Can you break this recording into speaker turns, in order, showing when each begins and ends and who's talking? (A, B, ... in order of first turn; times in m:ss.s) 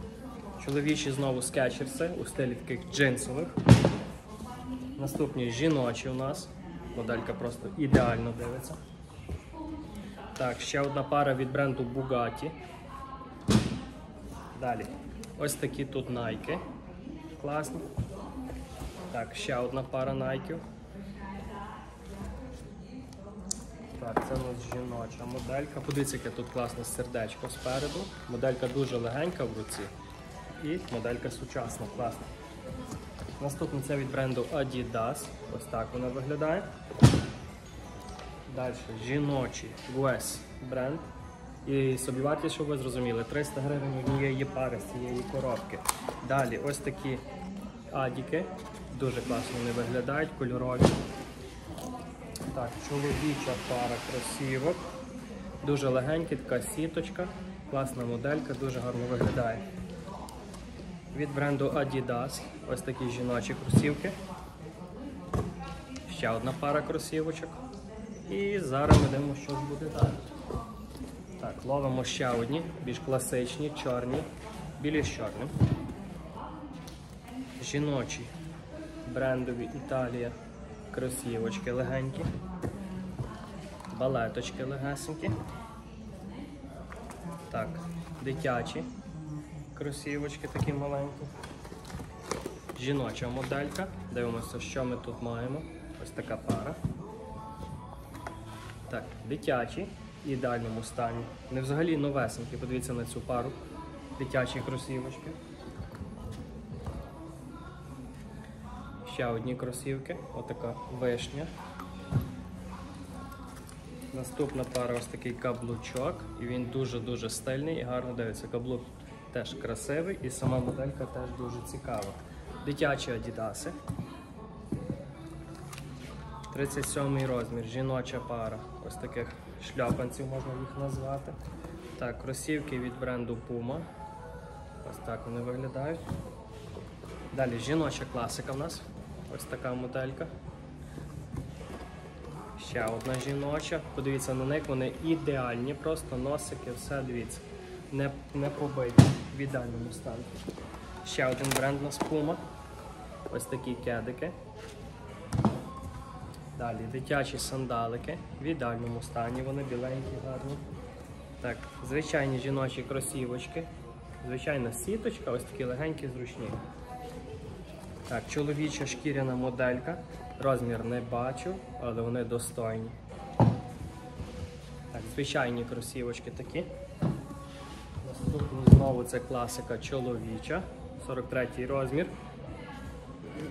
0:00.6-0:03.5 A
0:05.0-0:08.8 A
0:10.4-0:12.5 A
0:14.5-0:16.6 A
0:17.3-0:17.9 A
0:19.1-0:20.6 A
0:23.9-0:29.9 A
0:30.6-0:32.3 A
0:33.4-0:36.7 A
0:38.5-0:41.0 A
0:41.6-0:47.2 A
0:47.9-0:50.9 A
0:52.5-0:54.8 A
0:55.6-0:59.6 A
1:01.1-1:04.1 A
1:06.1-1:07.6 A
1:08.3-1:10.3 A
1:11.4-1:14.3 A
1:14.8-1:15.5 A
1:17.6-1:18.3 A
1:19.0-1:20.3 A
1:20.9-1:22.3 A
1:23.9-1:25.4 A
1:27.5-1:28.9 A
1:29.7-1:31.3 A
1:32.7-1:36.8 A
1:38.9-1:43.6 A
1:44.2-1:45.4 A
1:49.0-1:51.5 A
1:54.1-2:03.7 A
2:06.5-2:11.4 A
2:12.0-2:13.8 A
2:14.8-2:16.0 A
2:17.3-2:20.3 A
2:22.6-2:30.3 A
2:31.0-2:32.4 A
2:33.3-2:34.3 A
2:36.6-2:40.6 A
2:41.4-2:43.7 A
2:44.2-2:46.6 A
2:48.1-2:52.9 A
2:54.9-2:56.7 A
2:58.0-3:02.1 A